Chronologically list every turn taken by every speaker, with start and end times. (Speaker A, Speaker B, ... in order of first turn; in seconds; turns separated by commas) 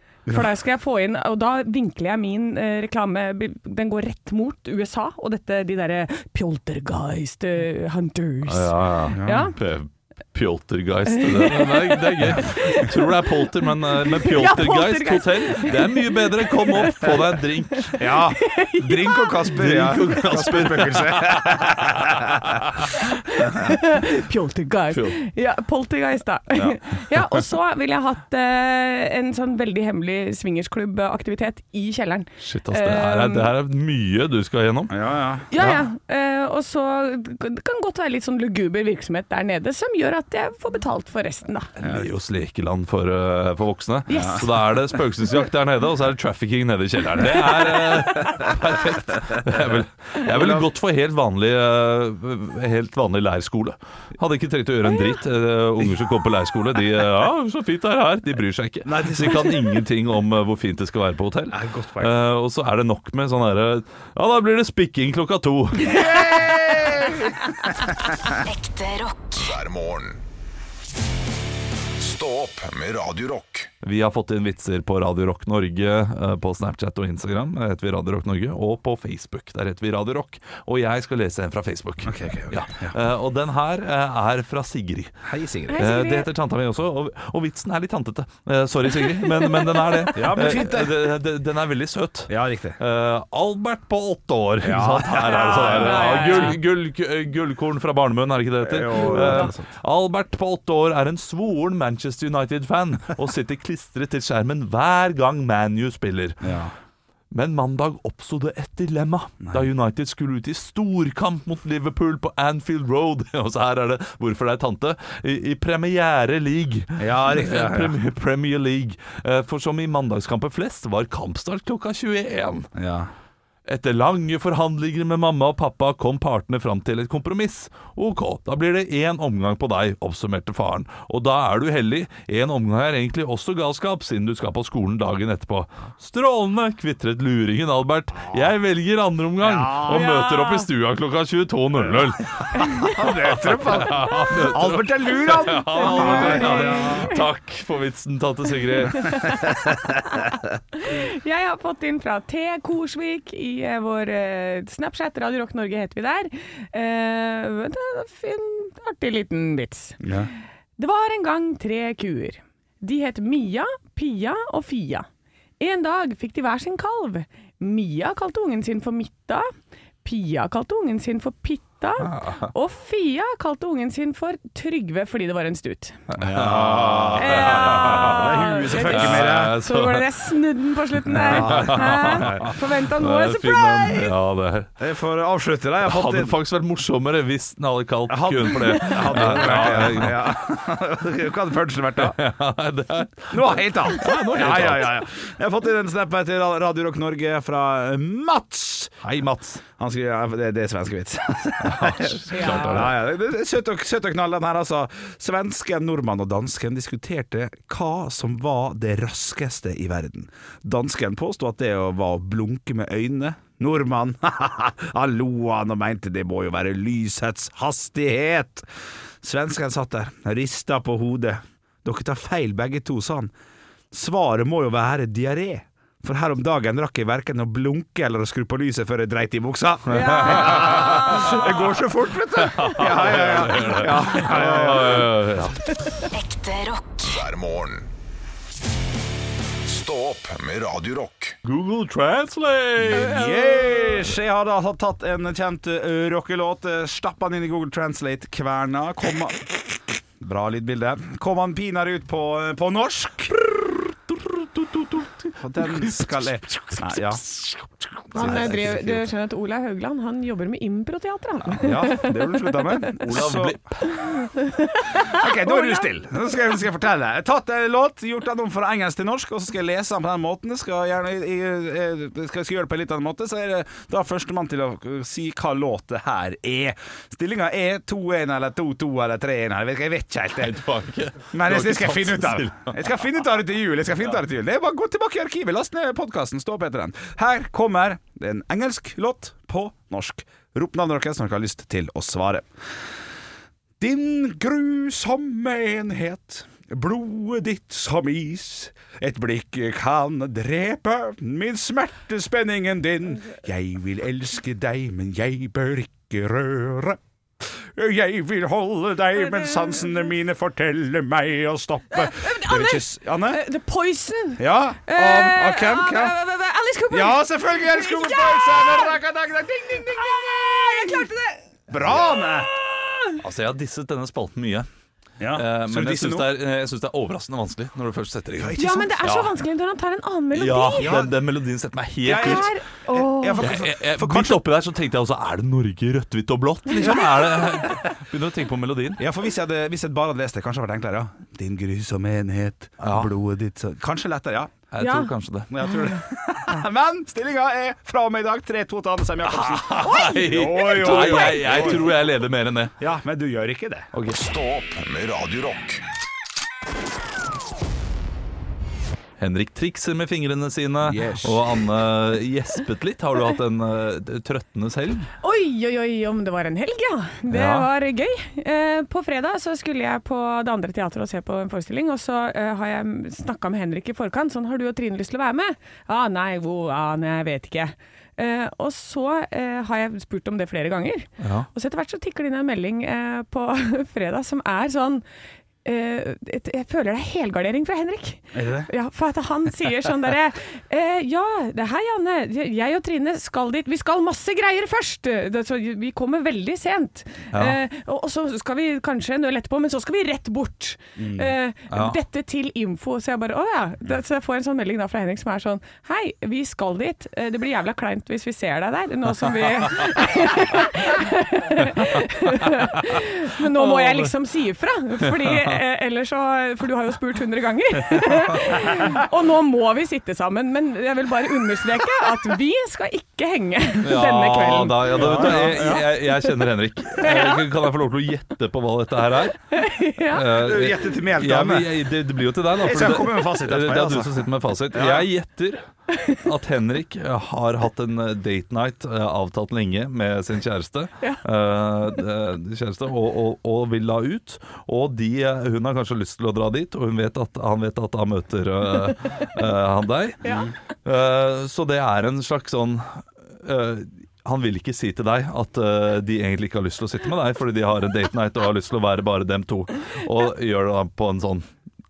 Speaker A: 0.3-9.6, Speaker B: 8.4-18.0, Speaker C: 9.1-9.4, Speaker A: 11.1-20.1, Speaker C: 18.0-22.6, Speaker B: 19.5-23.0, Speaker A: 23.1-33.5, Speaker B: 24.9-25.2, Speaker B: 26.6-27.4, Speaker B: 32.4-35.0, Speaker C: 34.9-35.5, Speaker A: 35.5-41.7, Speaker B: 35.5-35.8, Speaker B: 41.8-66.2, Speaker C: 41.8-42.1, Speaker A: 44.1-44.5, Speaker C: 44.1-44.5, Speaker A: 47.3-48.5, Speaker C: 50.3-50.6, Speaker C: 58.8-59.6, Speaker C: 61.5-62.1, Speaker C: 65.8-67.9, Speaker D: 68.3-69.5, Speaker E: 69.3-70.2, Speaker E: 72.0-73.7, Speaker B: 73.8-85.2, Speaker C: 82.0-83.0, Speaker C: 85.2-85.8, Speaker A: 85.7-86.3, Speaker B: 85.7-106.5, Speaker A: 89.0-90.1, Speaker C: 90.1-91.1, Speaker C: 92.3-92.8, Speaker C: 94.6-96.4, Speaker A: 95.2-96.6, Speaker C: 98.6-99.7, Speaker A: 98.9-99.5, Speaker C: 106.4-106.7, Speaker B: 107.3-122.7, Speaker C: 117.0-117.9, Speaker C: 122.8-123.1, Speaker B: 123.7-149.4, Speaker C: 139.4-140.2, Speaker A: 139.9-140.7, Speaker A: 142.6-142.9, Speaker C: 142.6-147.1, Speaker A: 145.2-147.2, Speaker A: 148.9-149.4, Speaker A: 150.7-160.0, Speaker C: 160.0-160.3, Speaker A: 160.8-165.1, Speaker A: 165.6-169.5, Speaker A: 170.0-176.0, Speaker B: 172.0-172.5, Speaker B: 176.1-180.1, Speaker C: 176.2-179.6, Speaker A: 177.2-184.1, Speaker C: 181.1-182.6, Speaker B: 181.2-184.7, Speaker C: 184.8-186.3, Speaker B: 185.8-190.3, Speaker C: 188.1-192.2, Speaker B: 192.0-195.0, Speaker C: 193.3-199.0, Speaker B: 199.0-199.6, Speaker C: 199.7-218.7, Speaker B: 201.6-203.0, Speaker A: 202.3-202.8, Speaker C: 219.2-223.3, Speaker C: 223.9-235.2, Speaker A: 229.9-231.3, Speaker B: 229.9-231.5, Speaker B: 232.4-235.6, Speaker D: 236.1-237.1, Speaker E: 237.0-237.9, Speaker E: 239.6-241.3, Speaker B: 241.4-243.2, Speaker A: 242.9-244.1, Speaker C: 242.9-253.5, Speaker B: 253.6-259.0, Speaker C: 255.4-257.2, Speaker A: 258.1-262.6, Speaker C: 258.1-259.0, Speaker C: 261.5-263.6, Speaker B: 263.0-264.0, Speaker A: 264.0-265.9, Speaker C: 264.9-280.6, Speaker B: 280.4-282.7, Speaker C: 281.3-292.5, Speaker C: 293.8-313.4, Speaker A: 309.4-309.8, Speaker A: 312.0-319.0, Speaker C: 314.4-316.2, Speaker C: 316.9-321.1, Speaker A: 319.7-321.4, Speaker C: 321.7-322.6, Speaker B: 323.2-324.7, Speaker C: 325.2-326.3, Speaker B: 325.3-329.3, Speaker C: 328.4-329.0, Speaker A: 328.6-330.9, Speaker B: 330.3-332.5, Speaker C: 330.8-331.1, Speaker C: 332.0-334.4, Speaker A: 332.1-333.5, Speaker B: 333.4-339.0, Speaker A: 336.7-337.7, Speaker C: 336.8-337.8, Speaker C: 339.0-344.6, Speaker B: 342.8-343.1, Speaker B: 344.7-345.5, Speaker A: 344.8-345.1, Speaker C: 345.5-351.9, Speaker B: 349.2-352.7, Speaker A: 349.8-351.8, Speaker C: 352.8-353.9, Speaker B: 353.9-354.2, Speaker E: 354.1-355.8, Speaker B: 359.2-365.1, Speaker C: 360.8-361.4, Speaker A: 365.2-385.0, Speaker B: 367.3-367.7, Speaker B: 381.2-381.5, Speaker A: 385.6-425.8, Speaker C: 388.3-388.7, Speaker B: 397.3-397.6, Speaker C: 401.0-401.3, Speaker B: 401.7-402.0, Speaker B: 413.5-414.1, Speaker B: 415.0-415.6, Speaker B: 423.8-429.4, Speaker C: 424.9-425.9, Speaker A: 427.0-427.4, Speaker A: 429.5-430.3, Speaker B: 430.0-461.4, Speaker C: 430.3-431.7, Speaker C: 432.6-435.1, Speaker A: 450.2-450.5